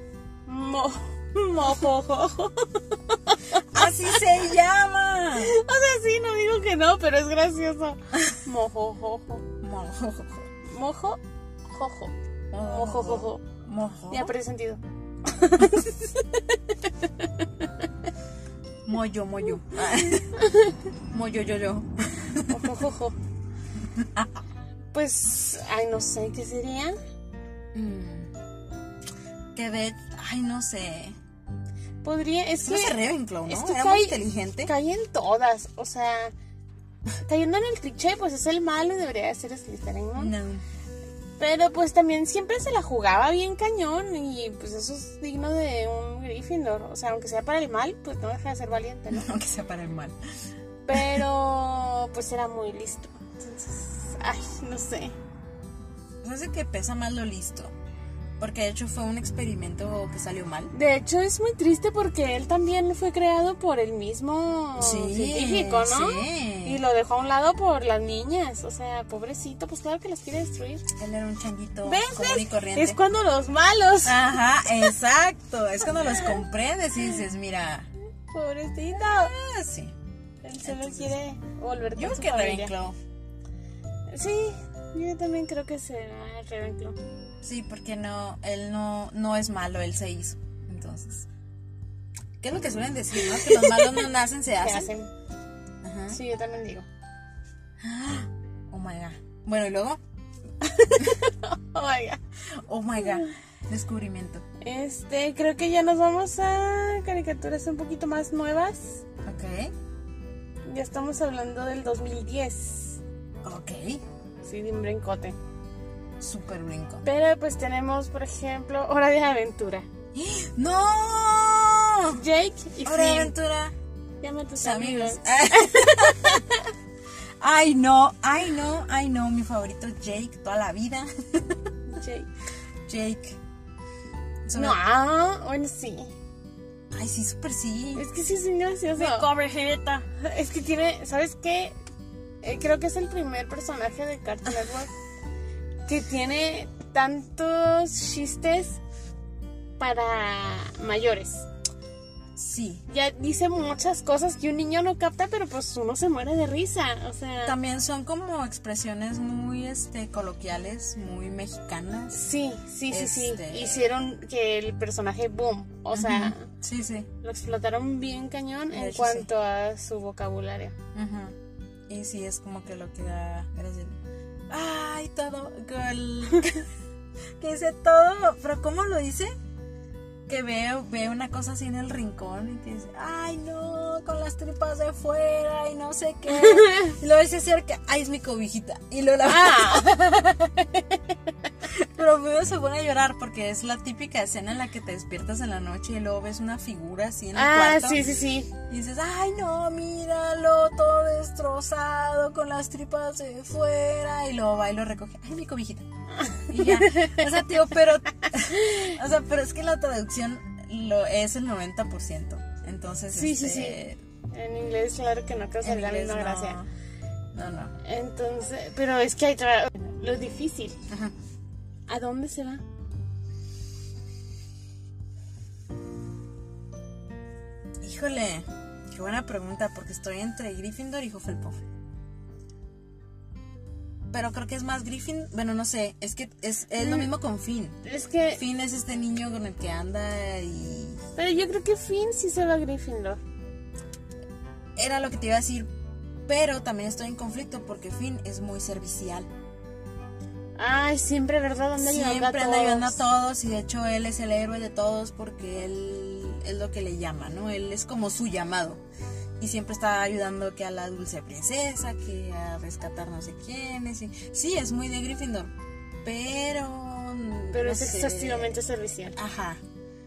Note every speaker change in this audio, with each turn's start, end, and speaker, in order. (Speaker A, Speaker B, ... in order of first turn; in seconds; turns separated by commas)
Speaker A: 0.5-4.2, Speaker B: 3.7-5.5, Speaker A: 5.4-9.4, Speaker B: 9.6-10.5, Speaker A: 10.6-13.4, Speaker B: 12.5-14.3, Speaker A: 14.1-17.9, Speaker B: 18.8-20.4, Speaker A: 20.4-20.8, Speaker B: 21.1-22.6, Speaker A: 22.5-23.1, Speaker B: 23.9-24.3, Speaker A: 24.9-26.9, Speaker B: 27.7-28.3, Speaker B: 29.5-31.2, Speaker A: 32.0-36.3, Speaker B: 32.6-34.7, Speaker A: 37.2-40.3, Speaker B: 40.1-40.6, Speaker A: 41.4-49.3, Speaker B: 49.1-50.1, Speaker A: 50.9-55.1, Speaker B: 50.9-51.2, Speaker B: 56.2-57.7, Speaker B: 58.4-60.7, Speaker A: 60.7-70.8, Speaker B: 64.8-66.8, Speaker B: 70.9-73.0, Speaker A: 71.8-74.2, Speaker B: 74.0-77.9, Speaker A: 76.0-76.3, Speaker A: 78.3-79.3, Speaker B: 78.9-80.0, Speaker A: 80.4-82.7, Speaker B: 80.6-81.2, Speaker B: 82.0-83.0, Speaker A: 84.1-87.0, Speaker B: 87.4-91.3, Speaker B: 92.4-94.9, Speaker A: 93.1-94.0, Speaker A: 94.6-95.1, Speaker B: 95.8-96.2, Speaker A: 96.1-96.8, Speaker B: 97.8-100.0, Speaker A: 100.6-102.2, Speaker B: 102.6-104.4, Speaker A: 104.6-109.0, Speaker B: 109.2-109.7, Speaker A: 110.7-113.0, Speaker B: 113.4-114.0, Speaker A: 114.4-115.4, Speaker B: 116.2-117.0, Speaker A: 117.0-119.9, Speaker B: 120.1-122.2, Speaker A: 122.1-123.3, Speaker B: 122.8-123.7, Speaker A: 124.2-126.7, Speaker B: 124.5-126.4, Speaker B: 127.4-131.6, Speaker A: 131.9-132.3, Speaker B: 132.8-133.4, Speaker B: 134.5-134.8, Speaker A: 134.5-136.1, Speaker B: 136.9-138.1, Speaker A: 137.9-139.3, Speaker B: 138.9-140.0, Speaker A: 140.0-141.8, Speaker A: 142.4-144.9, Speaker A: 145.9-148.8, Speaker A: 149.8-151.5, Speaker B: 152.3-152.8, Speaker A: 152.9-157.6, Speaker B: 157.4-162.2, Speaker A: 162.1-166.5, Speaker B: 162.9-163.8, Speaker B: 165.9-167.1, Speaker A: 167.2-170.8, Speaker B: 168.7-169.3, Speaker B: 170.9-171.3, Speaker B: 171.9-174.0, Speaker B: 174.5-176.6, Speaker B: 177.4-179.3, Speaker B: 180.3-190.8, Speaker A: 186.4-186.8, Speaker A: 189.2-190.1, Speaker A: 190.7-191.0, Speaker B: 191.6-198.1, Speaker A: 197.3-198.5, Speaker B: 198.7-205.9, Speaker A: 206.2-207.2, Speaker B: 206.5-214.0, Speaker A: 208.6-208.9, Speaker A: 213.1-213.8, Speaker A: 214.3-216.6, Speaker B: 215.6-216.7, Speaker B: 217.3-217.7, Speaker A: 217.8-220.8, Speaker B: 220.9-221.1, Speaker A: 221.9-222.6, Speaker B: 227.8-231.6, Speaker B: 234.1-237.8, Speaker A: 236.8-237.1, Speaker A: 237.8-238.4, Speaker B: 238.3-241.0, Speaker A: 241.2-243.2, Speaker B: 244.8-245.7, Speaker B: 246.3-249.3, Speaker A: 250.6-253.0, Speaker B: 251.8-258.8, Speaker B: 259.4-265.5, Speaker B: 266.0-268.6, Speaker A: 267.5-269.2, Speaker B: 269.1-269.6